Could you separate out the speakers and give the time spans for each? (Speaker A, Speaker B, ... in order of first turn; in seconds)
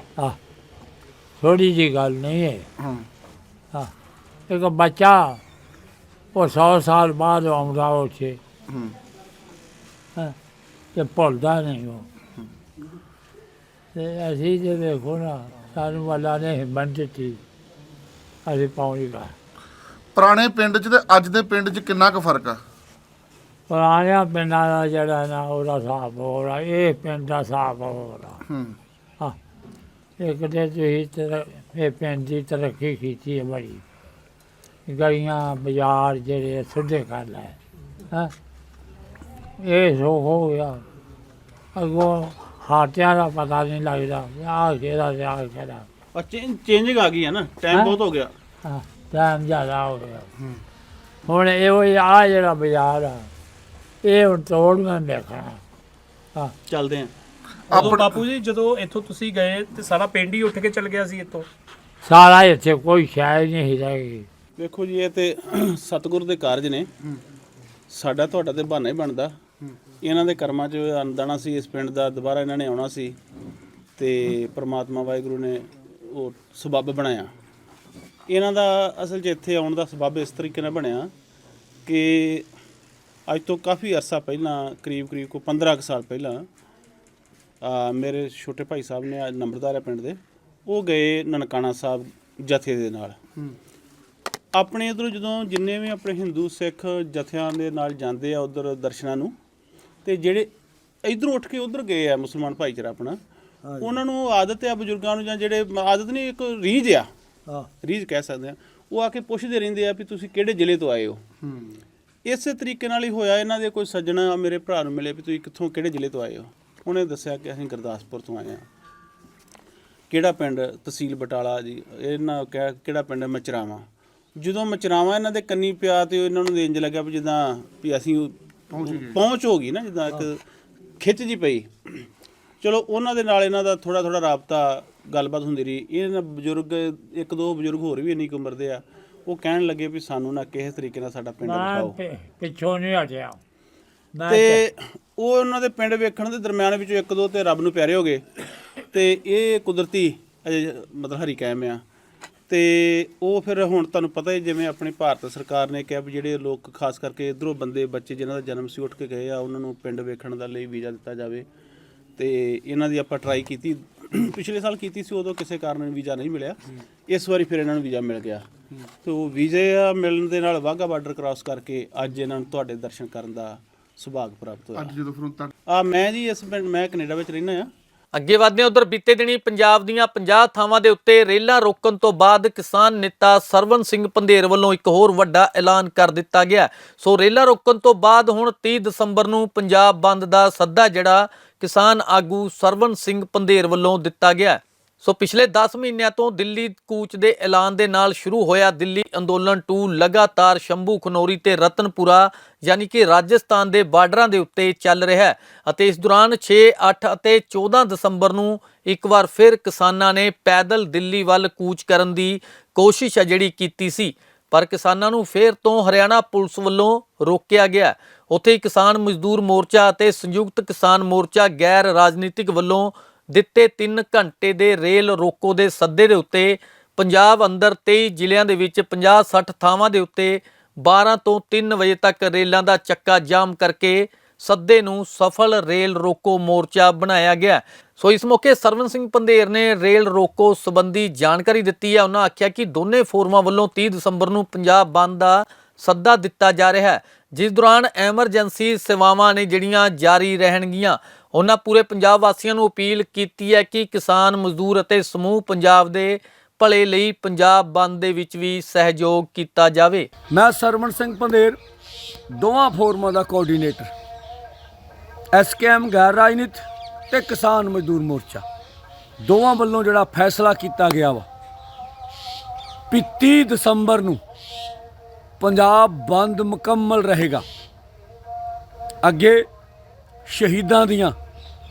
Speaker A: 1.4-2.7, 4.5-5.4, 6.3-8.4, 10.9-12.1, 13.9-17.4, 18.4-19.4, 23.7-28.4, 30.2-33.8, 34.9-37.6, 39.6-40.8, 41.8-45.9, 48.6-50.3, 51.3-53.3, 54.0-55.6, 62.0-64.3, 141.4-143.4, 144.2-144.6
Speaker B: 2.8-3.0, 8.7-8.9, 20.1-22.6, 28.5-28.8, 57.7-58.1, 128.8-129.2, 174.8-175.5
Speaker C: 46.1-48.3, 56.7-57.1, 57.8-58.0, 64.6-66.9, 67.9-69.4, 70.0-73.2, 74.0-77.3, 78.3-81.1, 81.8-82.5, 83.3-86.5, 87.6-93.2, 94.5-99.4, 100.0-100.5, 101.0-103.2, 103.8-107.1, 107.8-111.2, 112.2-118.7, 120.1-130.4, 131.0-132.1, 132.6-142.0, 144.3-148.3, 148.9-151.8, 152.5-161.5, 162.2-168.5, 169.0-175.0, 175.7-177.7
Speaker D: 57.7-61.5
Speaker E: 178.1-260.1
Speaker F: 260.3-261.6, 262.3-263.9, 265.3-268.4, 269.2-271.3, 272.9-274.2, 275.4-277.4, 279.0-279.5, 280.3-281.2